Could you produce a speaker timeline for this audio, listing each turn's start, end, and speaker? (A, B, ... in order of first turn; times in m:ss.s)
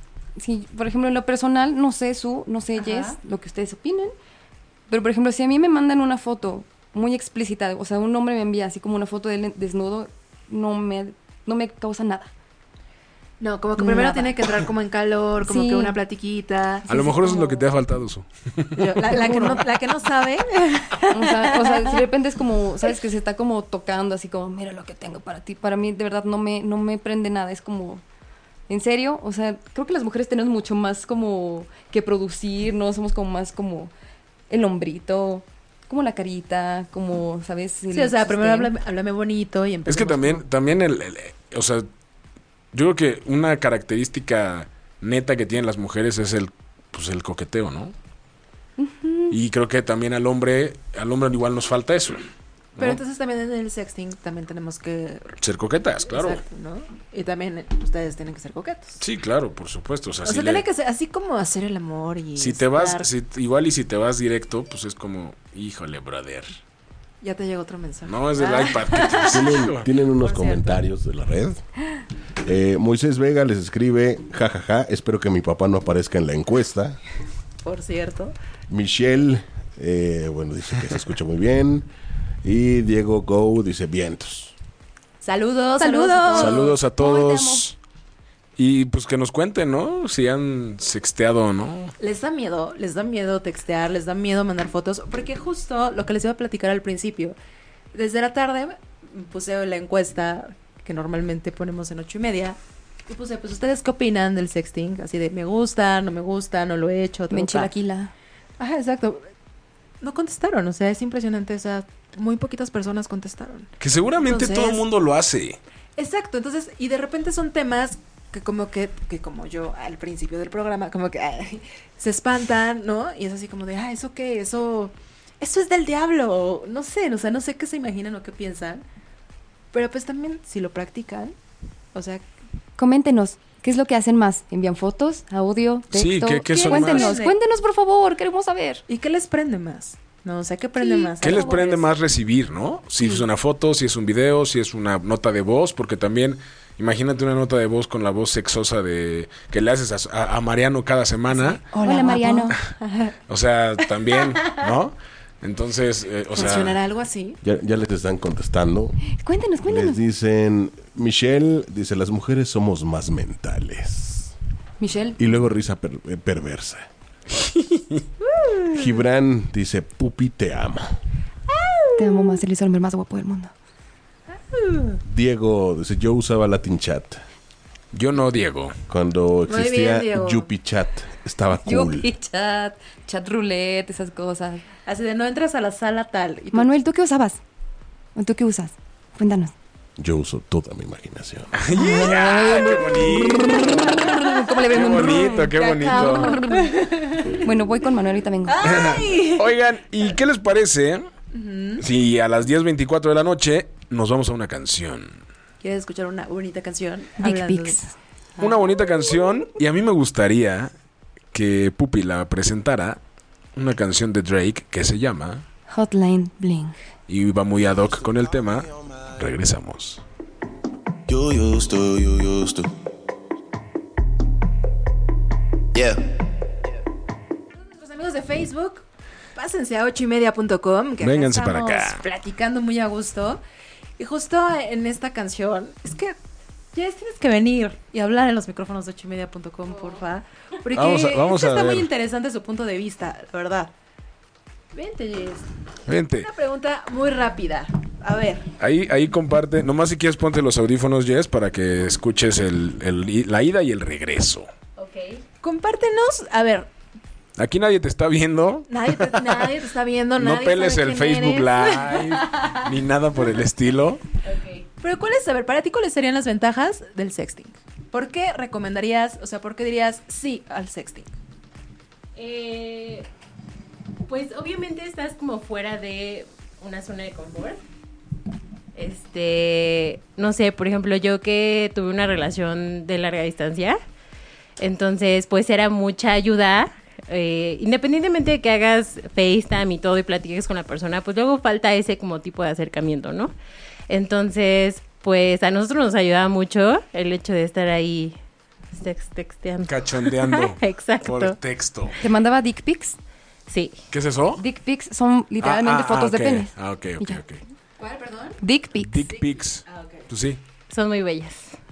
0:00.4-0:04.1 A
0:02.8-0:03.2 B
0:04.9-0:12.3 A
0:13.4-0:16.9 B
0:13.8-0:14.3 A
0:15.4-0:15.9 A
0:16.9-0:17.6 A
0:16.9-0:18.9 C
0:18.8-0:22.0 B
0:19.1-0:19.6 A
0:21.1-0:28.0 A
0:28.7-0:33.9 A
0:34.5-0:38.7 A
0:37.9-0:40.4 B
0:39.9-0:41.9 C
0:42.7-0:47.9 C
0:48.8-0:49.3 A
0:49.3-0:52.2 C
0:52.8-0:55.3 B
0:55.4-0:56.4 C
0:56.1-0:59.0 B
0:59.0-1:00.6 C
1:00.2-1:03.1 B
1:02.4-1:06.6 C
1:07.2-1:09.6 B
1:08.0-1:09.9 C
1:09.2-1:11.6 D
1:10.2-1:10.8 B
1:12.4-1:17.0 D
1:17.6-1:18.3 B
1:18.7-1:21.9 D
1:22.4-1:24.5 D
1:25.2-1:26.7 B
1:25.8-1:27.6 A
1:26.3-1:27.8 C
1:28.6-1:31.9 C
1:32.0-1:37.4 B
1:37.9-1:47.7 B
1:47.3-1:48.1 A
1:48.6-1:49.3 B
1:50.0-1:54.8 B
1:53.8-1:55.6 C
1:56.0-2:08.8 B
2:09.7-2:11.3 B
2:11.9-2:12.2 B
2:12.8-2:18.8 A
2:15.9-2:17.2 C
2:16.5-2:17.4 B
2:18.9-2:21.9 B
2:20.8-2:21.6 A
2:21.2-2:31.6 C
2:31.3-2:33.2 B
2:31.8-2:32.6 A
2:33.3-2:36.8 C
2:34.1-2:34.6 B
2:36.3-2:37.4 B
2:37.4-2:39.0 D
2:39.2-2:40.0 A
2:39.6-2:44.3 D
2:44.8-2:45.2 A
2:45.2-2:46.9 D
2:47.3-2:48.0 C
2:48.2-2:48.8 B
2:48.7-2:50.9 D
2:51.5-2:52.4 B
2:52.0-2:53.5 A
2:54.5-2:55.0 B
2:55.0-2:57.2 D
2:57.9-2:58.8 C
2:58.9-3:02.1 D
2:59.5-3:00.5 B
3:01.6-3:04.6 A
3:04.8-3:06.7 B
3:06.5-3:07.4 A
3:08.2-3:09.5 A
3:10.0-3:11.7 D
3:11.5-3:16.4 C
3:11.7-3:18.9 A
3:14.9-3:17.4 B
3:18.4-3:19.5 B
3:18.6-3:21.1 C
3:21.3-3:21.8 B
3:21.8-3:25.2 C
3:25.6-3:27.8 B
3:27.2-3:27.9 A
3:28.4-3:30.7 C
3:31.3-3:33.0 C
3:33.5-3:35.4 C
3:35.7-3:36.8 A
3:37.1-3:40.0 C
3:41.1-3:42.7 E
3:45.7-3:46.0 E
3:47.5-3:53.4 B
3:51.0-3:52.0 C
3:54.0-3:56.2 B
3:56.7-4:03.7 B
4:00.7-4:01.9 C
4:04.7-4:05.5 B
4:05.8-4:06.3 C
4:06.2-4:08.5 B
4:08.6-4:14.5 C
4:14.8-4:15.2 F
4:15.4-4:16.7 B
4:17.4-4:19.6 C
4:18.7-4:22.6 B
4:20.2-4:24.0 C
4:24.2-4:24.6 F
4:24.8-4:31.1 B
4:32.2-4:33.1 F
4:34.0-4:37.6 F
4:38.7-4:43.8 F
4:44.6-4:53.3 F
4:53.9-4:58.2 F
4:58.7-5:01.4 F
4:59.7-5:02.0 C
5:02.0-5:03.0 A
5:03.5-5:03.8 F
5:03.9-5:04.4 C
5:04.4-5:07.2 A
5:05.4-5:07.4 C
5:07.8-5:08.4 B
5:08.4-5:09.0 A
5:08.8-5:10.4 C
5:09.6-5:10.1 B
5:10.7-5:11.6 F